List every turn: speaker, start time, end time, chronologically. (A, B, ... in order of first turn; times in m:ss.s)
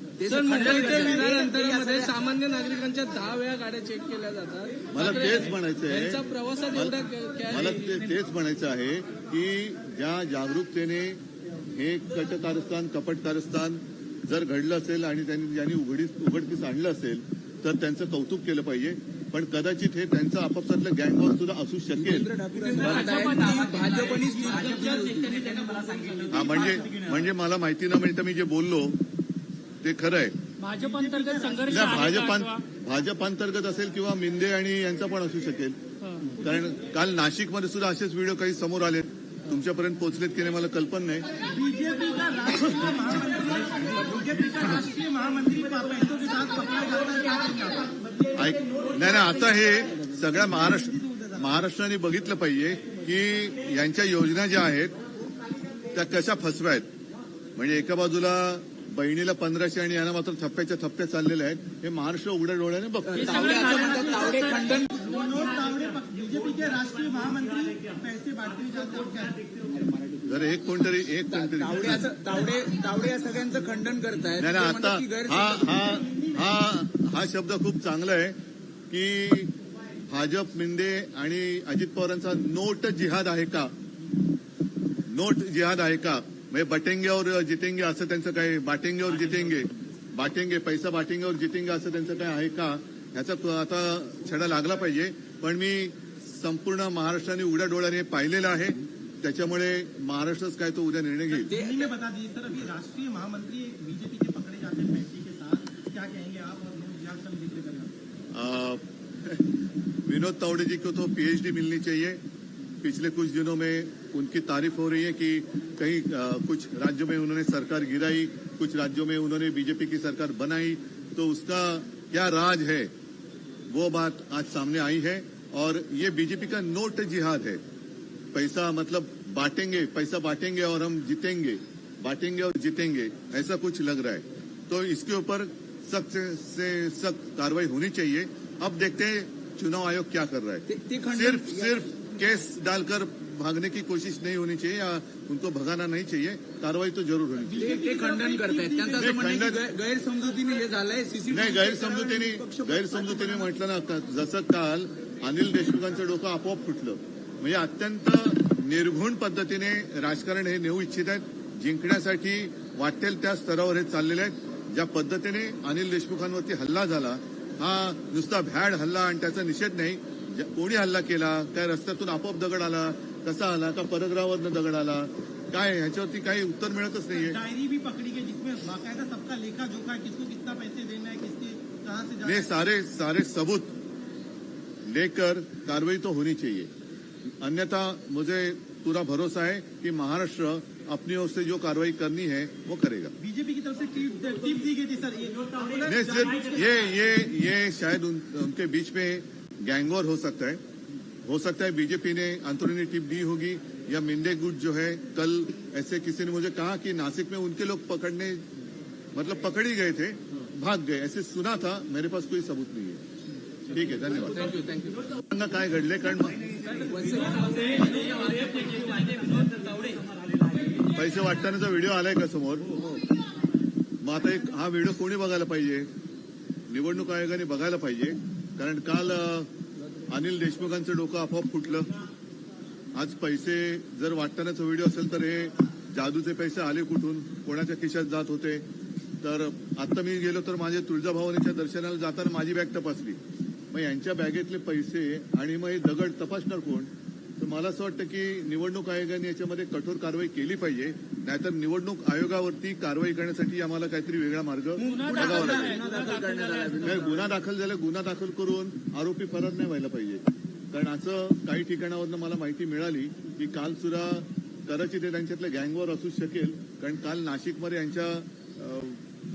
0:00.2-0:02.1 A
0:00.3-0:08.0 B
0:04.9-0:07.0 C
0:07.5-0:23.2 C
0:21.9-0:27.0 A
0:23.4-0:24.0 B
0:24.6-0:24.9 B
0:26.3-0:29.0 C
0:29.8-0:30.4 C
0:30.6-0:32.6 D
0:30.8-0:31.7 E
0:31.7-0:35.8 C
0:36.4-0:41.2 C
0:41.5-0:48.4 E
0:48.3-0:54.9 C
0:50.6-0:51.4 E
0:55.9-0:56.9 C
0:57.6-1:03.6 C
1:03.0-1:04.9 A
1:03.2-1:04.6 D
1:04.0-1:09.5 E
1:10.3-1:12.1 C
1:11.3-1:15.8 A
1:14.4-1:18.4 C
1:18.9-1:19.5 C
1:20.1-1:23.7 C
1:25.1-1:41.5 C
1:41.4-1:41.9 A
1:41.5-1:48.0 E
1:48.3-1:49.4 C
1:50.0-1:52.2 C
1:52.8-2:02.9 C
2:03.7-2:07.6 C
2:08.3-2:27.7 C
2:20.7-2:21.8 A
2:27.5-2:33.5 A
2:27.6-2:29.1 E
2:29.0-2:29.6 C
2:31.3-2:57.4 C
2:57.2-3:02.5 E
3:02.2-3:03.8 C
3:04.8-3:06.7 C
3:07.4-3:13.1 C
3:13.2-3:16.5 E
3:15.8-3:20.6 C
3:21.2-3:28.4 C
3:29.1-3:33.0 C
3:33.7-3:36.7 C
3:36.9-3:40.0 A
3:40.9-3:42.7 C
3:44.0-3:45.9 C
3:46.7-3:49.5 C
3:50.1-3:51.9 C
3:52.9-3:58.6 C
3:59.2-4:03.2 C
4:03.7-4:15.8 C
4:14.8-4:17.3 A
4:14.8-4:16.8 D
4:16.8-4:29.0 C